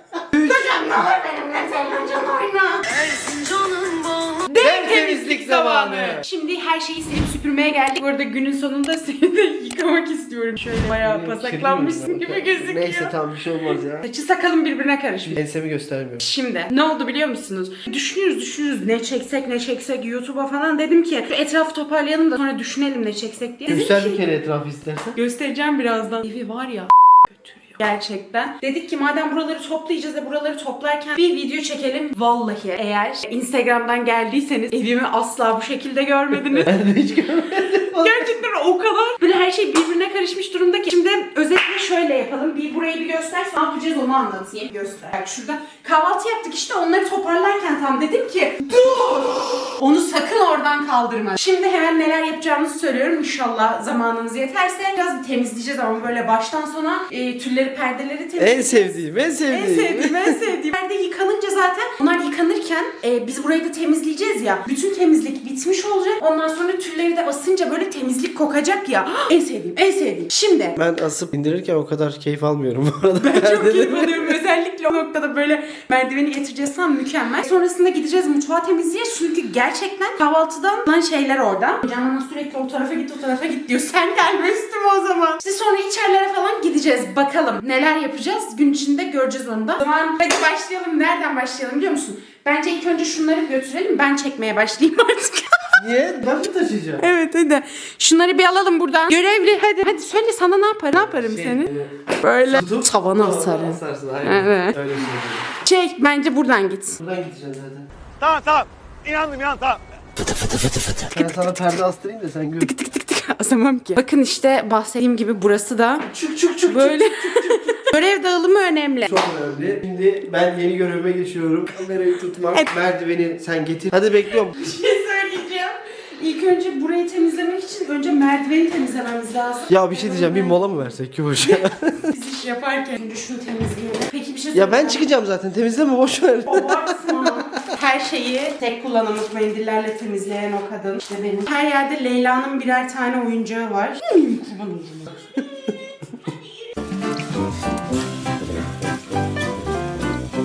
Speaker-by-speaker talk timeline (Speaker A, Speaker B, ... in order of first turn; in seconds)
Speaker A: 0.3-2.9, 4.5-13.1, 14.0-15.4, 16.2-24.2, 25.1-36.7, 38.0-70.8, 73.2-95.8, 97.0-104.8, 105.6-107.0, 112.6-116.1, 116.6-119.1, 124.3-130.9, 131.4-135.0, 136.5-146.7
Speaker B: 2.9-4.5, 108.2-109.8
Speaker C: 4.6-6.2, 11.0-14.1, 15.3-16.2, 23.7-25.1, 36.5-38.4, 58.4-60.4, 70.8-74.4, 95.8-97.1, 100.9-105.5, 107.0-107.9, 111.1-112.7, 116.1-117.9, 119.0-124.6, 129.7-132.1, 134.5-137.6, 145.3-145.7